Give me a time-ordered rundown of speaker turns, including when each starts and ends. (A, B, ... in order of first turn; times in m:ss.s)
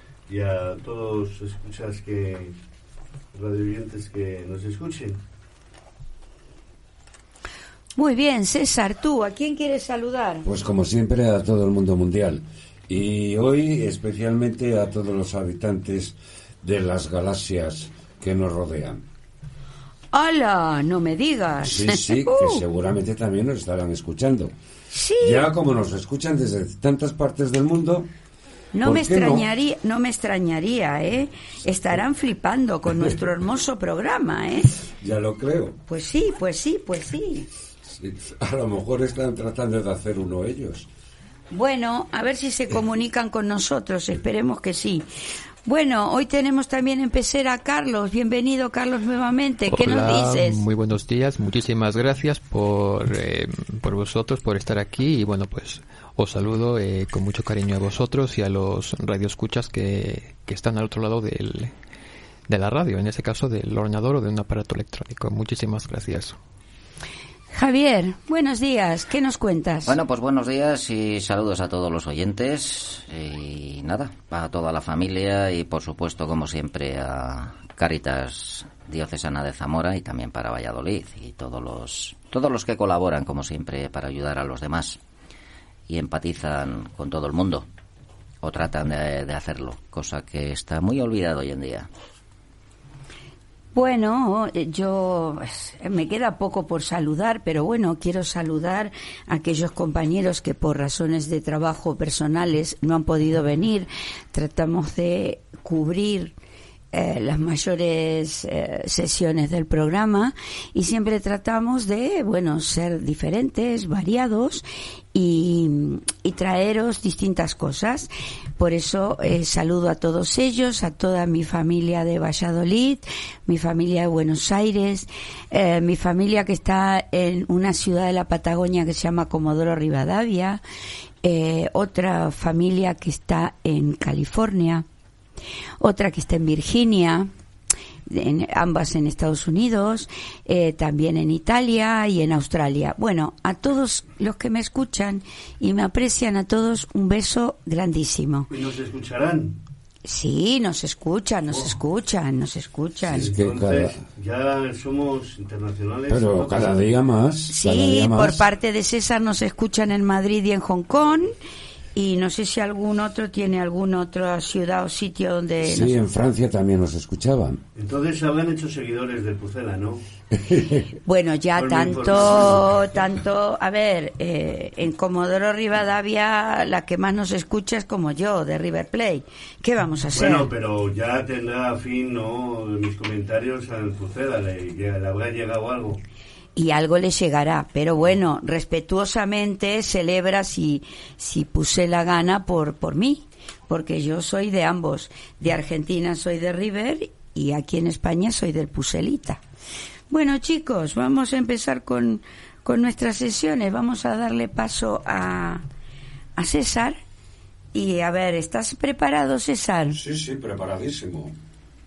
0:00.3-0:02.6 A
0:03.3-0:05.2 A
0:08.0-0:10.5 B
0:10.4-0:19.0 C
0:20.1-0:22.6 B
0:21.6-0:24.6 C
0:24.9-0:25.5 B
0:25.2-0:28.1 C
0:28.7-0:34.9 B
0:28.8-0:29.4 C
0:34.9-0:35.8 C
0:35.9-0:37.5 B
0:37.8-0:40.9 C
0:41.5-0:45.1 B
0:45.6-0:50.6 B
0:49.7-1:01.7 D
1:02.5-1:06.4 D
1:07.5-1:10.0 B
1:09.8-1:25.0 E
1:25.9-1:27.6 E
1:28.4-1:31.9 E
1:33.7-1:46.3 B
1:46.9-2:10.6 B
2:11.2-2:14.8 B
2:15.8-2:17.3 B
2:18.1-2:28.5 B
2:28.5-2:29.6 A
2:30.0-2:33.3 B
2:31.5-2:31.7 A
2:33.0-2:34.0 C
2:33.1-2:36.8 A
2:36.1-2:38.4 C
2:37.5-2:41.3 B
2:41.9-2:45.9 B
2:45.6-2:47.6 C
2:47.8-2:50.0 A
2:50.4-2:50.8 C
2:51.0-3:00.5 B
2:51.6-2:52.7 A
3:00.1-3:06.0 A
3:06.6-3:19.4 B
3:20.1-3:25.6 B
3:26.4-3:27.0 B
3:27.7-3:30.0 B
3:29.9-3:31.3 C